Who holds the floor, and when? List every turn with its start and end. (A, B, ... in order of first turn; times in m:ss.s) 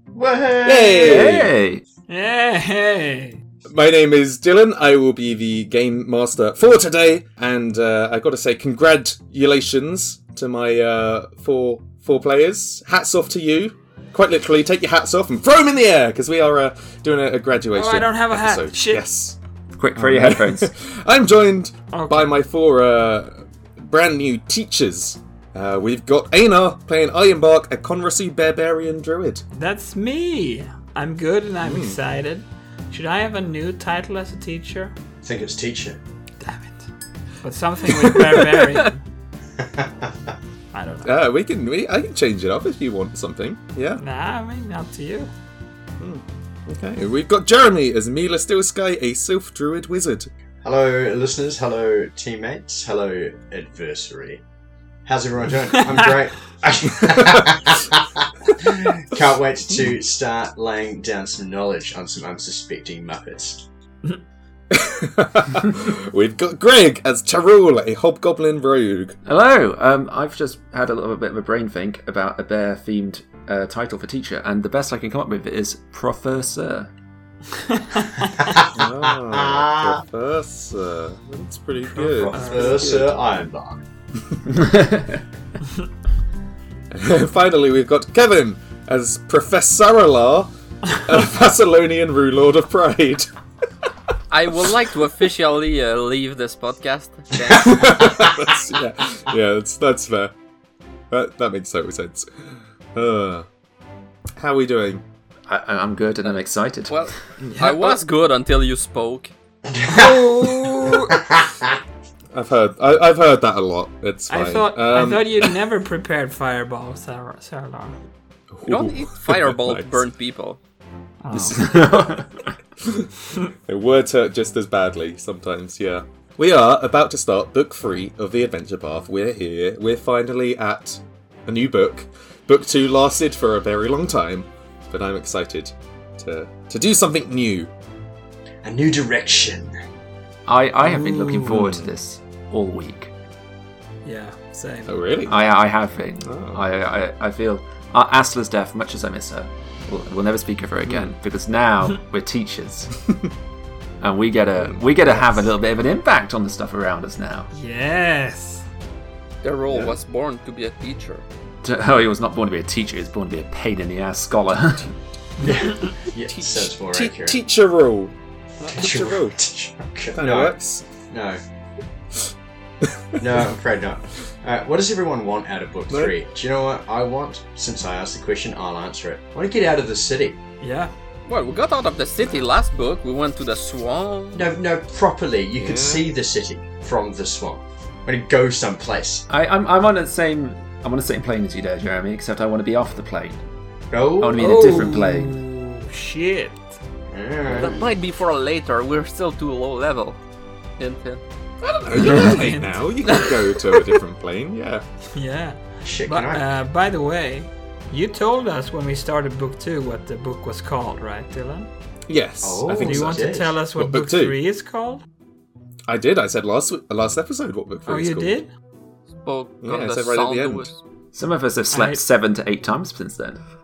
0:00.2-0:01.4 A
0:00.6-0:01.5 B
0:01.0-0:01.8 C
0:02.1-0:03.4 D
0:03.7-0:19.4 B
0:17.7-0:19.0 D
0:19.8-0:20.7 C
0:20.0-0:29.4 B
0:21.9-0:22.3 D
0:29.6-0:35.0 D
0:31.6-0:32.0 B
0:35.2-0:36.0 A
0:36.4-0:39.0 D
0:39.8-0:40.1 A
0:40.7-0:41.1 D
0:41.0-0:44.0 B
0:44.0-0:45.3 D
0:46.0-0:50.3 B
0:50.6-0:54.4 A
0:55.1-1:03.7 A
1:04.7-1:09.2 B
1:09.3-1:16.9 C
1:18.6-1:20.0 A
1:18.7-1:23.0 B
1:22.0-1:23.8 A
1:22.1-1:22.8 D
1:22.6-1:23.1 C
1:24.5-1:25.2 C
1:26.9-1:33.3 B
1:34.3-1:37.9 E
1:37.6-1:40.3 B
1:41.1-1:43.5 B
1:44.4-1:45.0 B
1:45.5-1:47.1 C
1:46.9-1:49.3 E
1:47.4-1:48.0 D
1:49.9-1:51.2 D
1:52.3-1:55.6 B
1:54.3-1:58.0 D
1:58.5-2:00.0 B
1:58.7-2:00.6 E
2:01.2-2:02.2 D
2:01.3-2:02.2 B
2:01.6-2:02.3 C
2:02.8-2:17.7 B
2:18.6-2:19.7 A
2:20.5-2:23.1 C
2:20.8-2:21.9 B
2:24.0-2:24.9 D
2:24.9-2:25.4 B
2:25.3-2:32.9 C
2:26.2-2:26.7 B
2:30.8-2:31.1 B
2:34.0-2:37.5 C
2:34.6-2:35.4 B
2:37.5-2:38.7 D
2:39.4-2:41.2 E
2:39.7-2:40.0 B
2:41.6-2:44.9 C
2:45.4-2:47.4 A
2:46.2-2:48.2 B
2:48.7-2:51.4 A
2:48.7-2:49.4 B
2:50.1-2:50.8 B
2:53.2-3:00.4 A
2:55.9-2:56.2 B
3:00.6-3:01.0 D
3:01.3-3:04.5 E
3:04.3-3:09.3 A
3:05.6-3:06.0 B
3:09.3-3:13.4 C
3:13.9-3:15.0 A
3:14.2-3:15.4 C
3:14.4-3:16.8 D
3:17.1-3:17.9 A
3:17.6-3:20.2 E
3:20.8-3:21.2 E
3:21.6-3:24.8 B
3:22.0-3:22.8 D
3:25.2-3:31.7 D
3:25.8-3:26.5 A
3:32.1-3:34.4 B
3:32.4-3:33.5 A
3:32.8-3:35.0 D
3:35.9-3:38.4 B
3:37.9-3:38.5 D
3:39.2-3:40.8 E
3:39.6-3:40.7 B
3:41.1-3:43.4 C
3:41.7-3:42.0 D